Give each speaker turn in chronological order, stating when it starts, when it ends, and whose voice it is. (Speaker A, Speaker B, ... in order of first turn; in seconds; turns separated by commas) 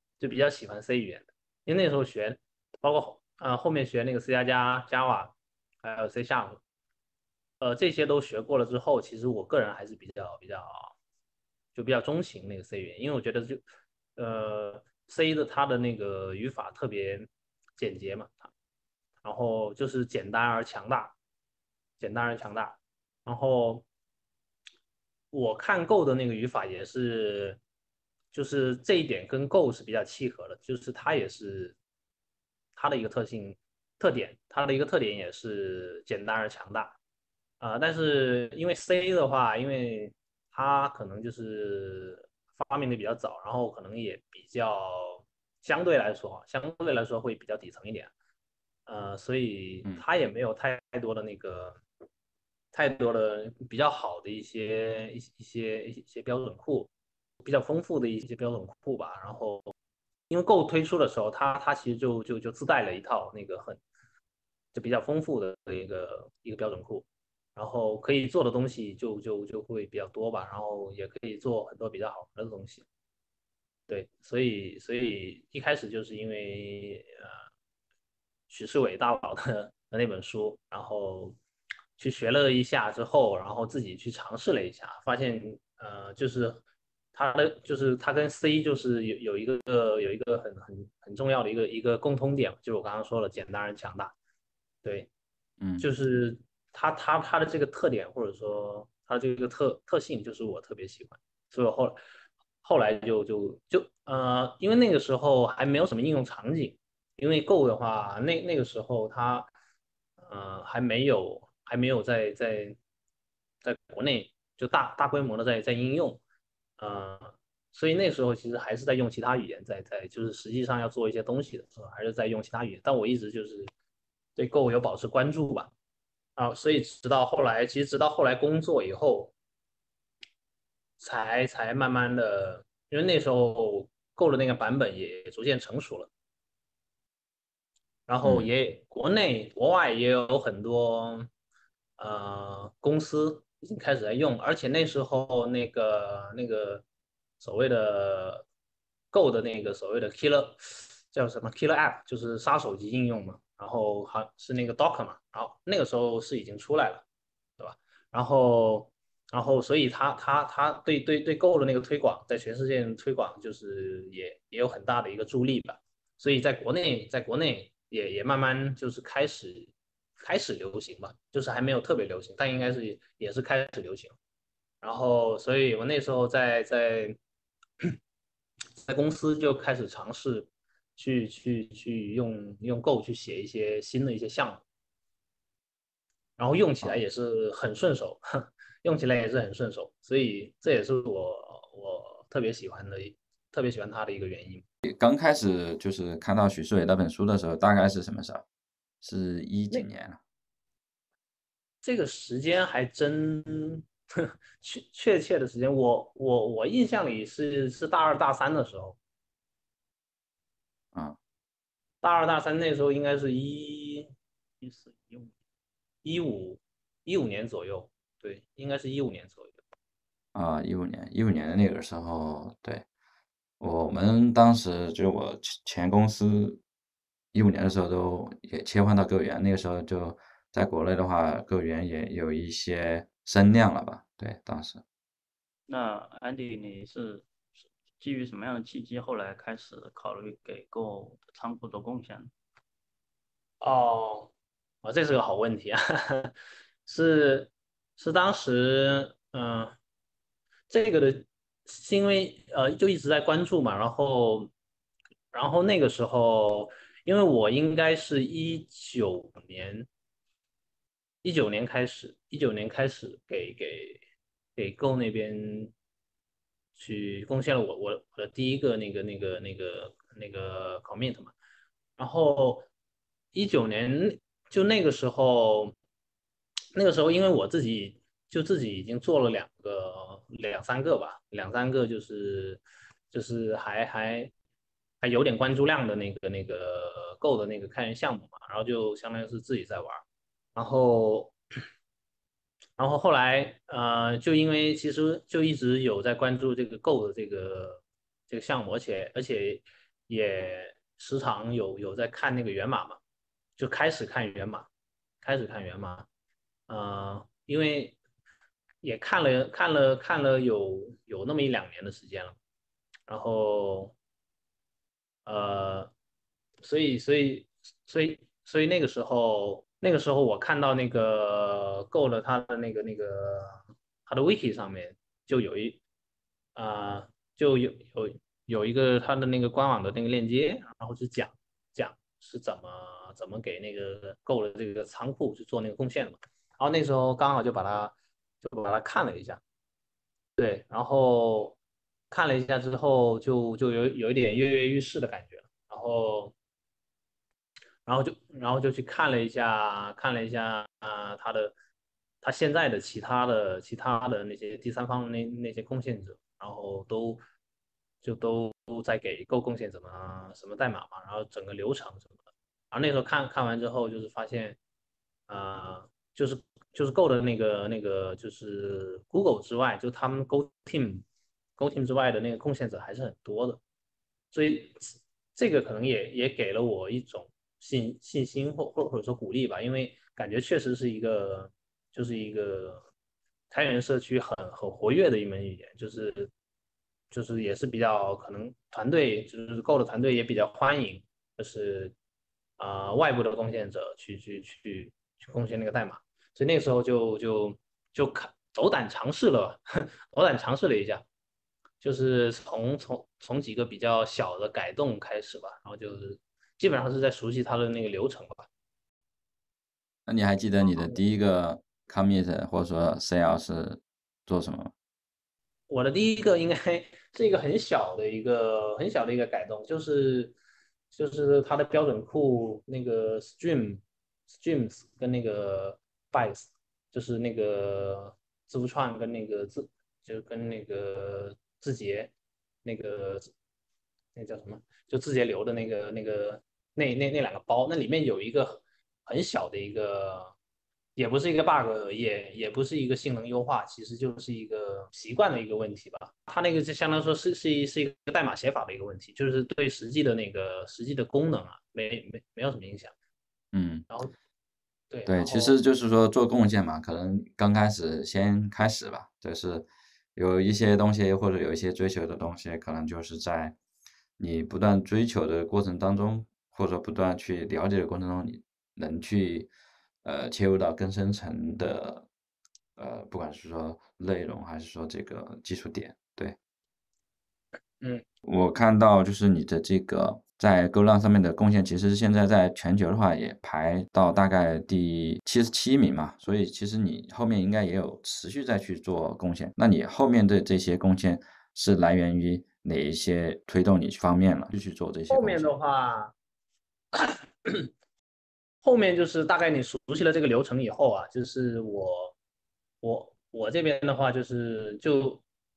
Speaker A: 0.2-6.6, Speaker A: 7.6-10.9, Speaker A: 11.8-13.6, Speaker A: 14.2-18.5, Speaker A: 19.2-21.1, Speaker A: 22.0-23.9, Speaker A: 25.3-27.6, Speaker A: 28.3-31.8, Speaker A: 32.8-37.0, Speaker A: 37.6-48.1, Speaker A: 48.9-51.8, Speaker A: 52.7-56.9, Speaker A: 57.4-59.7, Speaker A: 60.3-63.8, Speaker A: 64.7-72.8, Speaker A: 73.9-77.4, Speaker A: 78.5-81.4, Speaker A: 82.0-86.6, Speaker A: 87.1-94.1, Speaker A: 94.8-95.1, Speaker B: 95.6-95.9, Speaker A: 95.8-102.0, Speaker A: 102.6-109.5, Speaker A: 110.2-112.8, Speaker A: 113.6-116.2, Speaker A: 116.8-123.7, Speaker A: 124.4-125.7, Speaker A: 126.4-129.3, Speaker A: 131.0-136.1, Speaker A: 138.1-141.3, Speaker B: 138.2-138.5, Speaker A: 142.0-146.8, Speaker A: 147.4-148.5, Speaker A: 149.1-157.1, Speaker A: 157.6-174.2, Speaker A: 174.8-177.2, Speaker A: 178.8-184.6, Speaker A: 186.4-188.2, Speaker A: 188.8-194.6, Speaker B: 194.8-198.4, Speaker B: 199.0-200.2, Speaker A: 201.8-203.9, Speaker A: 204.6-209.0, Speaker A: 212.0-214.1, Speaker C: 214.6-215.3, Speaker A: 216.0-219.6, Speaker B: 220.3-222.8, Speaker B: 223.6-226.6, Speaker B: 227.3-234.8, Speaker C: 235.7-237.3, Speaker C: 238.0-242.3, Speaker A: 243.6-244.3, Speaker A: 244.8-246.3, Speaker A: 246.9-249.8, Speaker A: 250.7-254.5, Speaker A: 255.3-259.9, Speaker A: 261.2-264.0, Speaker A: 264.6-265.7, Speaker A: 266.8-271.3, Speaker A: 272.0-272.7, Speaker A: 273.3-275.7, Speaker A: 276.8-284.3, Speaker A: 285.0-290.0, Speaker A: 290.6-291.3, Speaker A: 292.8-303.0, Speaker A: 303.6-304.7, Speaker A: 305.2-306.1, Speaker A: 306.7-308.0, Speaker A: 308.8-312.4, Speaker A: 313.1-313.9, Speaker A: 315.2-315.9, Speaker A: 316.6-325.8, Speaker A: 326.6-339.4, Speaker A: 340.4-341.6, Speaker A: 342.1-346.3, Speaker A: 347.9-351.5, Speaker A: 352.2-357.2, Speaker A: 358.0-362.1, Speaker A: 362.7-364.6, Speaker A: 365.3-371.0, Speaker A: 371.6-373.6, Speaker A: 374.3-382.8, Speaker A: 383.5-386.3, Speaker A: 387.1-391.9, Speaker A: 392.6-401.0, Speaker A: 401.8-408.5, Speaker B: 410.1-414.7, Speaker A: 415.7-420.4, Speaker A: 420.9-423.8, Speaker A: 424.4-432.1, Speaker A: 432.6-433.3, Speaker A: 434.1-440.3, Speaker A: 441.0-452.9, Speaker B: 453.5-453.9, Speaker A: 454.9-455.6, Speaker B: 455.1-463.6, Speaker B: 464.2-469.5, Speaker B: 470.0-472.1, Speaker B: 472.8-476.4, Speaker B: 478.2-495.5, Speaker A: 495.1-496.1, Speaker A: 496.9-497.7, Speaker A: 498.6-502.1, Speaker A: 502.8-505.2